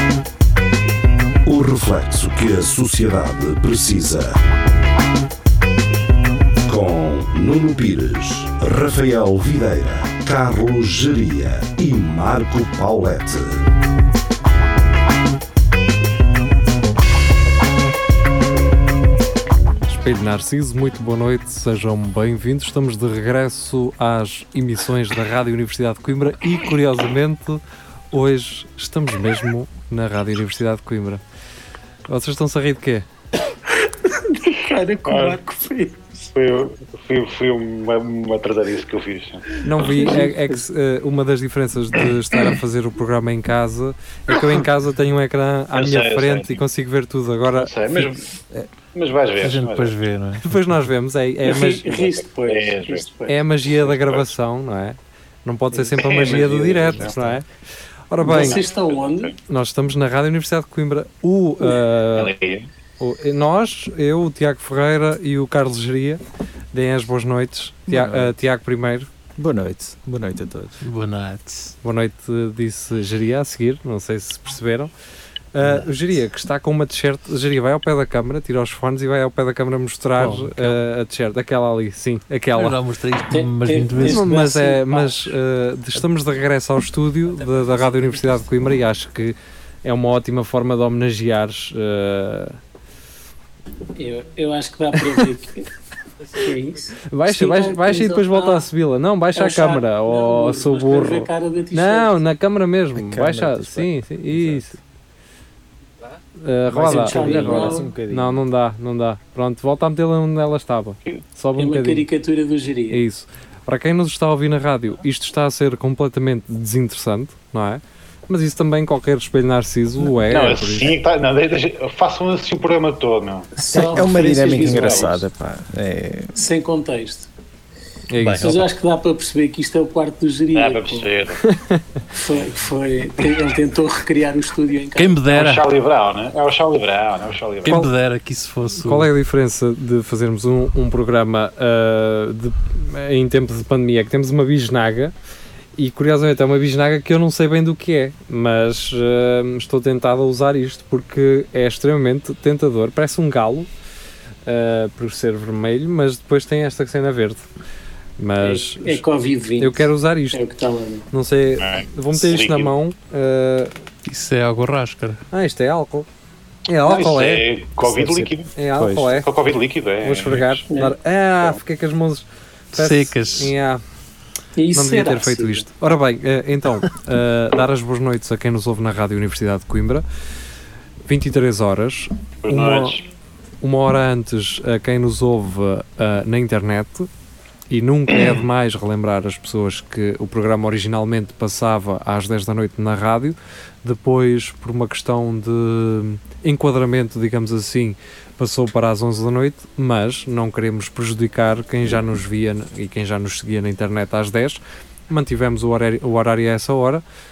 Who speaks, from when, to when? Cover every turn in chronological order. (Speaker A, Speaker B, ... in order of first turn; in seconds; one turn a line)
Speaker A: 1.5-4.4
Speaker A: 6.7-13.7
Speaker B: 19.9-27.6
Speaker B: 28.1-31.2
Speaker B: 32.1-33.1
Speaker C: 33.7-36.3
Speaker D: 35.1-35.4
Speaker D: 36.3-39.5
Speaker B: 39.6-47.7
Speaker C: 39.7-40.6
Speaker D: 45.8-46.6
Speaker D: 47.5-48.2
Speaker D: 48.9-50.0
Speaker E: 49.4-50.7
Speaker B: 50.4-51.9
Speaker C: 51.5-53.4
Speaker D: 51.9-53.1
Speaker B: 53.3-57.5
Speaker D: 53.7-54.3
Speaker D: 56.0-57.1
Speaker F: 56.9-57.4
Speaker B: 58.1-58.6
Speaker C: 58.2-59.3
Speaker D: 58.3-59.3
Speaker B: 59.5-62.3
Speaker D: 62.1-62.7
Speaker B: 63.0-66.2
Speaker B: 66.7-69.1
Speaker F: 67.9-68.3
Speaker F: 69.4-70.8
Speaker E: 70.8-71.7
Speaker B: 71.8-74.9
Speaker B: 75.5-82.8
Speaker E: 80.2-80.8
Speaker E: 82.5-84.3
Speaker C: 83.3-85.3
Speaker B: 84.0-92.6
Speaker C: 94.0-95.7
Speaker C: 96.3-98.6
Speaker B: 97.1-104.8
Speaker C: 99.3-102.2
Speaker F: 103.0-104.8
Speaker B: 106.3-112.1
Speaker F: 106.7-108.5
Speaker C: 106.8-107.9
Speaker C: 111.6-113.0
Speaker B: 112.9-121.0
Speaker D: 120.3-125.2
Speaker C: 123.6-125.2
Speaker F: 123.7-126.3
Speaker C: 126.3-127.3
Speaker B: 128.1-128.7
Speaker E: 128.2-128.5
Speaker C: 128.4-131.1
Speaker D: 130.5-131.4
Speaker B: 131.5-131.8
Speaker C: 132.2-135.3
Speaker E: 135.0-135.6
Speaker D: 135.3-137.9
Speaker E: 137.6-139.1
Speaker B: 138.8-145.1
Speaker B: 145.8-153.7
Speaker B: 154.5-157.5
Speaker B: 158.2-159.0
Speaker C: 158.4-161.1
Speaker B: 159.6-160.4
Speaker B: 161.1-163.7
Speaker D: 161.6-162.7
Speaker E: 164.1-165.2
Speaker B: 165.3-166.1
Speaker B: 166.7-167.5
Speaker D: 166.9-168.5
Speaker F: 167.8-169.2
Speaker B: 168.6-169.3
Speaker D: 169.2-170.6
Speaker B: 170.0-173.8
Speaker C: 170.7-171.0
Speaker E: 172.8-173.5
Speaker C: 174.6-175.7
Speaker B: 174.7-180.0
Speaker B: 181.1-183.0
Speaker D: 182.4-183.0
Speaker B: 183.6-187.1
Speaker B: 187.7-207.0